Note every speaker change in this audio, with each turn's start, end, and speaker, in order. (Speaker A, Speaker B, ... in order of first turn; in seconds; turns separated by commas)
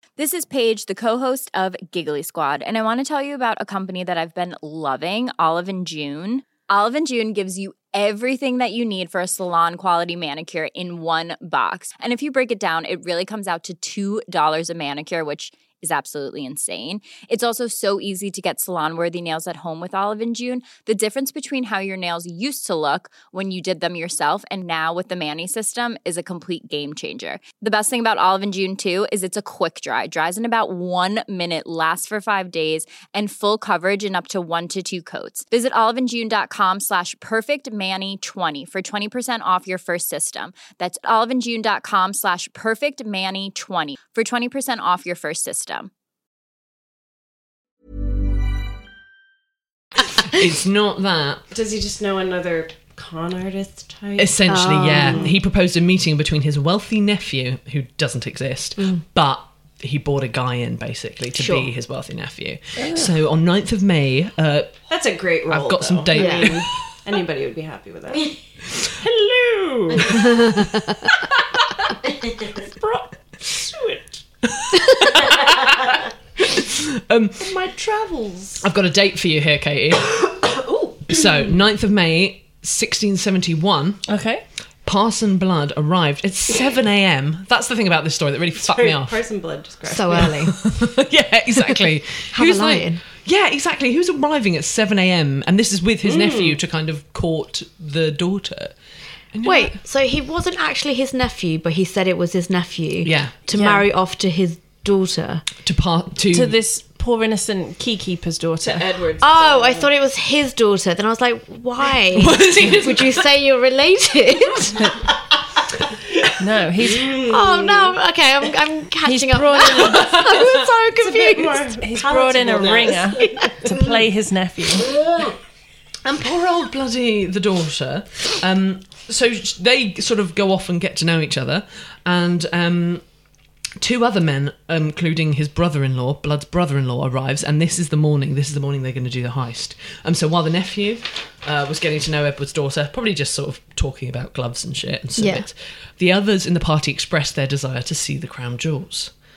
Speaker A: 0.2-45.9, Speaker B: 50.3-51.4, Speaker C: 51.5-55.4, Speaker B: 54.2-64.8, Speaker D: 54.5-55.3, Speaker D: 61.3-61.7, Speaker E: 62.8-63.1, Speaker C: 64.9-68.3, Speaker B: 65.5-66.7, Speaker D: 66.1-66.6, Speaker C: 68.9-70.3, Speaker D: 70.3-70.8, Speaker C: 72.4-74.2, Speaker B: 74.6-77.5, Speaker C: 77.6-78.6, Speaker B: 78.6-84.0, Speaker E: 84.1-84.4, Speaker B: 84.8-89.2, Speaker C: 88.6-90.4, Speaker D: 89.9-90.6, Speaker B: 90.4-98.7, Speaker D: 92.3-93.0, Speaker C: 96.0-96.6, Speaker B: 99.3-99.8, Speaker D: 99.4-105.5, Speaker B: 103.0-103.4, Speaker E: 103.5-103.9, Speaker B: 105.6-106.6, Speaker E: 106.3-108.9, Speaker C: 108.6-109.9, Speaker D: 109.2-115.0, Speaker B: 112.1-113.2, Speaker E: 116.4-117.2, Speaker C: 116.8-118.0, Speaker D: 117.2-121.7, Speaker E: 119.0-120.2, Speaker B: 119.8-120.6, Speaker C: 121.0-123.5, Speaker E: 121.8-124.9, Speaker D: 123.2-123.8, Speaker B: 124.8-125.3, Speaker B: 126.0-133.0, Speaker B: 133.8-149.1, Speaker D: 145.2-145.4